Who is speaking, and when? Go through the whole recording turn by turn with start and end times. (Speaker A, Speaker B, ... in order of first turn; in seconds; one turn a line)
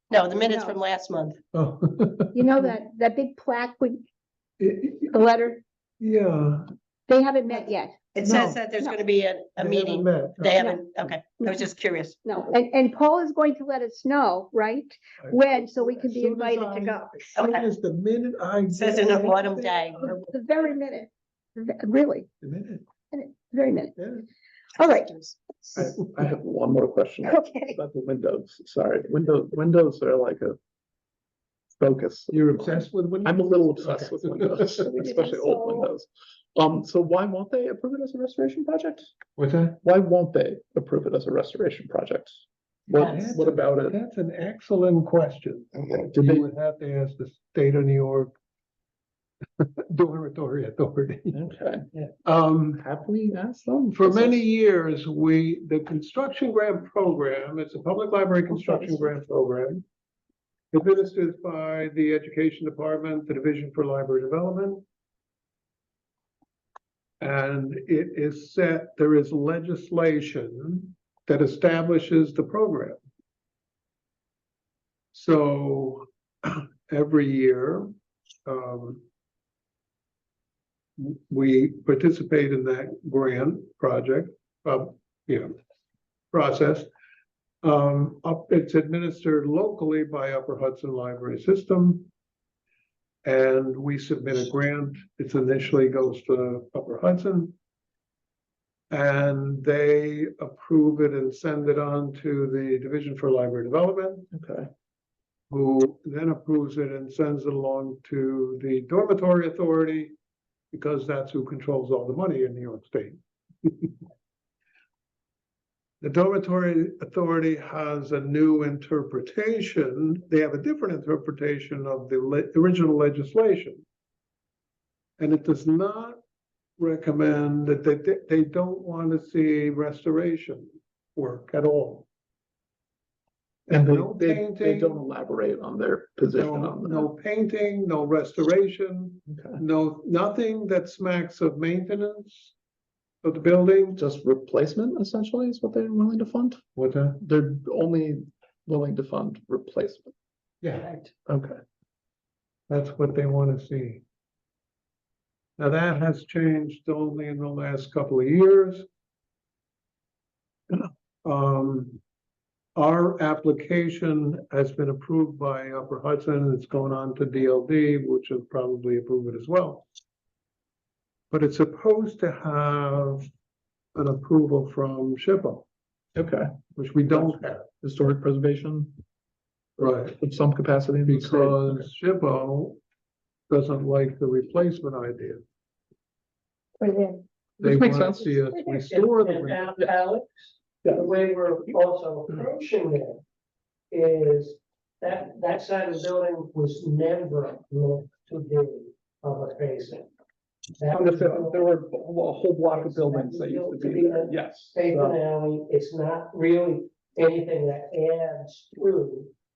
Speaker A: 0.1-1.4
Speaker B: 0.4-0.8
Speaker C: 1.5-2.7
Speaker B: 2.3-4.0
Speaker C: 4.6-5.2
Speaker B: 5.1-5.6
Speaker C: 6.0-6.7
Speaker B: 7.1-8.1
Speaker A: 8.1-12.2
Speaker C: 8.2-8.6
Speaker C: 9.6-11.1
Speaker B: 12.2-17.4
Speaker C: 15.2-21.0
Speaker A: 18.7-20.1
Speaker B: 20.0-22.3
Speaker C: 22.4-22.8
Speaker B: 23.1-24.0
Speaker C: 23.9-24.2
Speaker B: 24.8-25.9
Speaker D: 25.7-30.6
Speaker B: 27.2-27.8
Speaker D: 31.8-39.1
Speaker C: 32.3-34.8
Speaker B: 35.0-35.9
Speaker C: 39.4-39.8
Speaker D: 39.8-44.0
Speaker C: 43.0-48.3
Speaker D: 45.9-46.5
Speaker C: 49.6-51.4
Speaker D: 51.3-51.8
Speaker C: 52.2-52.8
Speaker D: 52.8-54.4
Speaker C: 53.9-59.8
Speaker C: 60.7-64.8
Speaker C: 67.2-73.0
Speaker C: 75.1-77.9
Speaker C: 78.5-79.0
Speaker C: 81.0-85.5
Speaker C: 86.3-86.9
Speaker C: 87.6-92.1
Speaker C: 93.2-97.5
Speaker C: 98.9-104.3
Speaker D: 104.3-104.7
Speaker C: 105.5-110.1
Speaker C: 110.7-113.9
Speaker C: 116.0-123.8
Speaker C: 125.2-126.2
Speaker C: 126.8-132.1
Speaker C: 133.7-135.0
Speaker D: 133.7-137.1
Speaker C: 136.3-142.5
Speaker D: 139.3-139.6
Speaker C: 143.2-144.0
Speaker D: 144.0-146.6
Speaker C: 146.7-147.2
Speaker D: 147.2-150.1
Speaker D: 151.3-151.6
Speaker C: 152.7-154.0
Speaker C: 155.6-158.8
Speaker C: 160.7-162.0
Speaker C: 162.8-169.8
Speaker C: 171.3-173.3
Speaker C: 173.9-175.7
Speaker D: 176.1-176.5
Speaker C: 176.7-177.7
Speaker D: 177.1-179.0
Speaker C: 179.8-180.2
Speaker D: 180.2-181.9
Speaker C: 181.0-182.8
Speaker C: 183.5-185.4
Speaker B: 186.8-187.2
Speaker D: 187.6-188.4
Speaker C: 187.6-189.8
Speaker E: 188.9-193.2
Speaker D: 190.8-191.1
Speaker E: 193.9-200.1
Speaker E: 200.8-201.6
Speaker D: 200.9-205.2
Speaker E: 202.7-209.3